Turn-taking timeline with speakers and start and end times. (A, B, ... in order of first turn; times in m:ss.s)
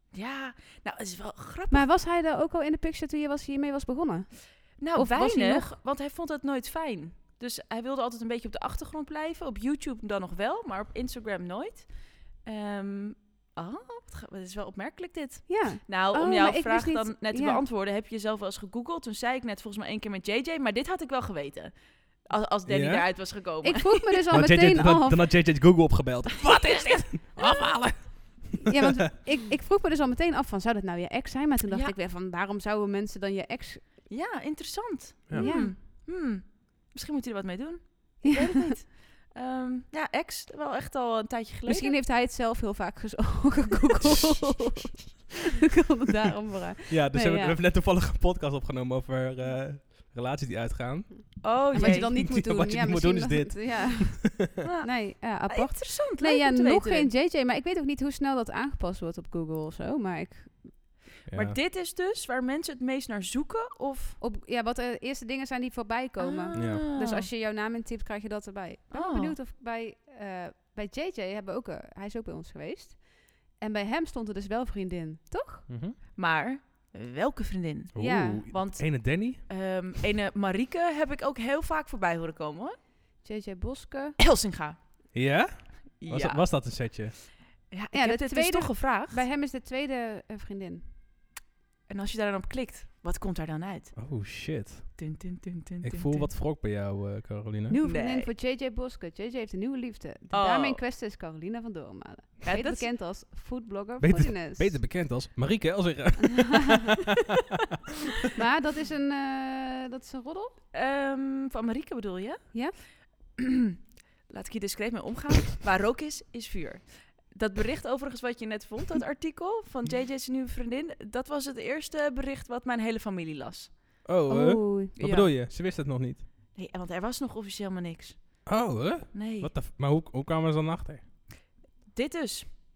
0:00.1-0:01.9 A
0:01.7-0:05.7 B
0:04.8-0:24.2 A
0:15.5-0:17.6 B
0:22.7-0:23.1 C
0:23.6-0:25.3 B
0:24.3-0:28.8 C
0:28.7-0:33.8 B
0:31.7-0:32.0 A
0:34.1-0:42.0 A
0:35.3-0:35.6 C
0:35.3-0:35.8 B
0:38.2-0:38.7 B
0:41.7-0:47.6 B
0:46.9-0:54.5 C
0:51.4-0:52.2 A
0:51.7-1:00.8 B
0:54.6-0:57.1 A
1:01.3-1:01.6 C
1:01.3-1:04.2 A
1:04.2-1:15.7 B
1:06.2-1:07.3 A
1:06.6-1:06.9 C
1:08.9-1:09.4 A
1:15.7-1:16.0 C
1:16.2-1:22.8 A
1:17.9-1:19.6 C
1:18.0-1:18.5 B
1:23.2-1:24.2 B
1:24.2-1:24.8 A
1:25.1-1:27.2 C
1:26.0-1:26.9 A
1:27.7-1:29.2 A
1:27.9-1:30.9 B
1:31.9-1:34.0 A
1:34.0-1:35.2 C
1:35.0-1:36.3 A
1:35.8-1:37.8 C
1:37.7-1:44.8 B
1:37.8-1:38.3 A
1:40.3-1:40.8 A
1:42.4-1:42.9 A
1:44.0-1:46.9 C
1:48.4-1:50.6 B
1:50.7-2:04.0 A
2:04.0-2:06.2 C
2:04.3-2:05.0 B
2:05.0-2:05.3 A
2:06.5-2:09.5 A
2:08.5-2:11.0 C
2:11.9-2:12.6 A